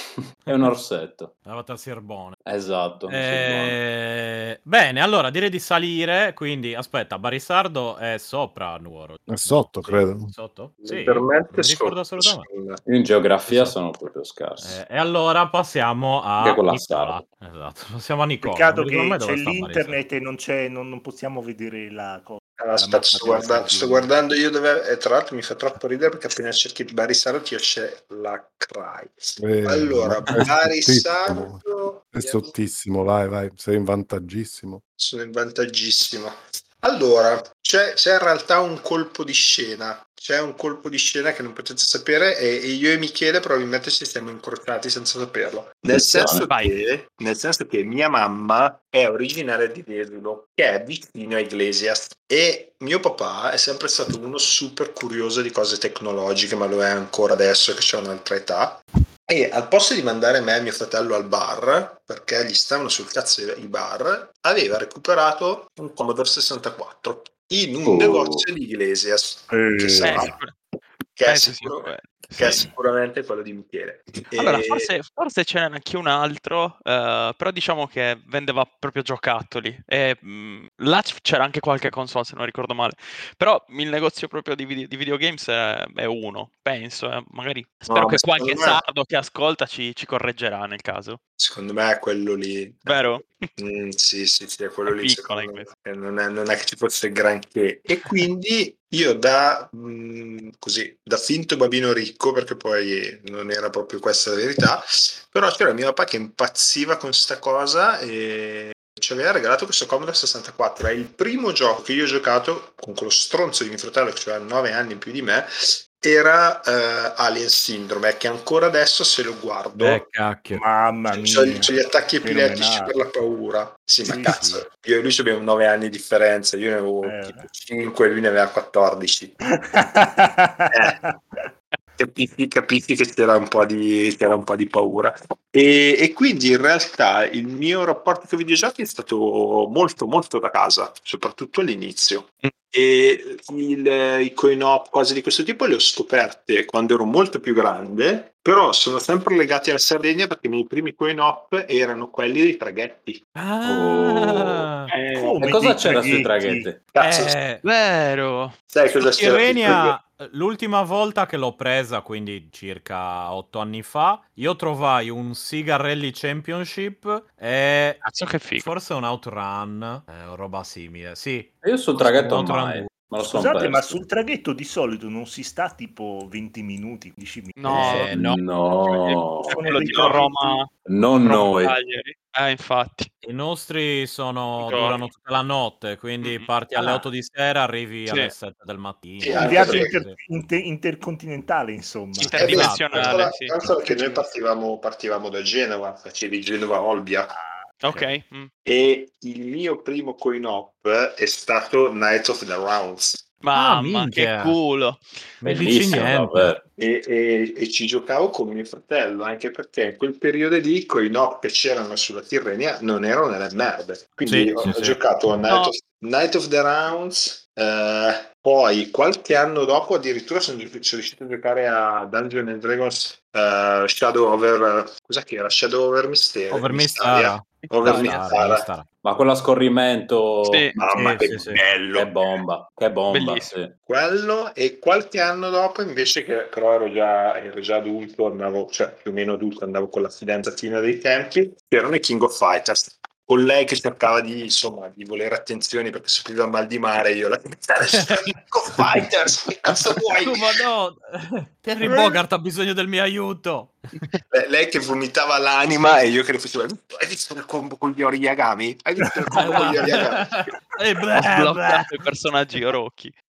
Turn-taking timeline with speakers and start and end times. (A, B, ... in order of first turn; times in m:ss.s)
0:00.2-0:01.3 A
0:01.4-0:02.4 B
0:02.4-0:03.8 A
0:03.1-0:12.5 B
0:09.3-0:10.3 C
0:10.8-0:12.8 D
0:12.9-0:14.8 A
0:13.5-0:13.8 B
0:14.6-0:20.0 B
0:16.4-0:17.3 A
0:18.4-0:24.1 E
0:22.6-0:32.5 D
0:29.4-0:31.6 C
0:32.1-0:34.8 C
0:35.0-1:10.4 D
0:45.9-0:46.5 A
0:46.5-0:46.8 F
1:07.8-1:08.4 A
1:09.5-1:10.4 E
1:10.0-1:10.5 F
1:11.1-1:14.9 D
1:11.3-1:12.7 F
1:14.3-1:31.2 F
1:27.9-1:28.8 D
1:31.4-2:00.0 D
1:32.8-1:33.5 F
1:34.8-1:35.7 F
1:59.8-2:00.6 B
2:00.5-2:03.0 E
2:01.1-2:09.4 D
2:04.0-2:04.6 E
2:07.0-2:07.5 E
2:09.6-2:11.5 E
2:10.7-2:11.0 D
2:12.0-2:33.2 D
2:33.3-2:34.9 B
2:33.6-2:34.7 A
2:34.9-2:35.4 D
2:35.1-2:36.7 E
2:35.4-2:36.9 A
2:36.9-2:37.4 D
2:37.0-2:37.6 B
2:37.6-2:38.5 F
2:38.7-2:40.0 D
2:39.0-2:48.0 B
2:48.0-2:48.7 F
2:48.6-2:53.1 B
2:51.6-2:54.0 A
2:53.2-2:57.9 E
2:57.6-2:58.1 F
2:57.7-2:58.4 B
2:57.7-2:59.6 A
2:58.8-3:00.7 F
2:59.5-3:00.3 E
2:59.6-3:00.6 D
3:00.8-3:01.8 A
3:01.2-3:03.1 F
3:03.2-3:10.1 B
3:04.6-3:05.0 F
3:06.2-3:07.0 F
3:08.1-3:08.3 F
3:09.2-3:09.9 D
3:09.3-3:12.4 E
3:12.2-3:13.2 B
3:12.2-3:13.5 F
3:12.4-3:17.3 D
3:13.8-3:14.2 E
3:17.3-3:18.1 E
3:17.8-3:18.5 F
3:18.6-3:23.2 D
3:23.4-3:25.0 F
3:23.5-3:24.6 B
3:25.4-3:26.6 B
3:25.4-3:26.6 A
3:26.8-3:48.7 D
3:34.2-3:35.0 B
3:35.5-3:35.7 F
3:46.5-3:48.9 B
3:47.8-3:48.2 F
3:49.0-3:50.7 A
3:50.4-3:50.7 F
3:50.7-3:52.2 D
3:50.9-3:51.6 B
3:51.9-3:53.7 A
3:53.1-3:53.5 F
3:53.9-4:10.6 D
4:07.9-4:08.2 B
4:10.1-4:14.1 B
4:11.8-4:12.2 D
4:14.3-4:20.2 D
4:19.3-4:22.0 B
4:21.1-4:23.1 F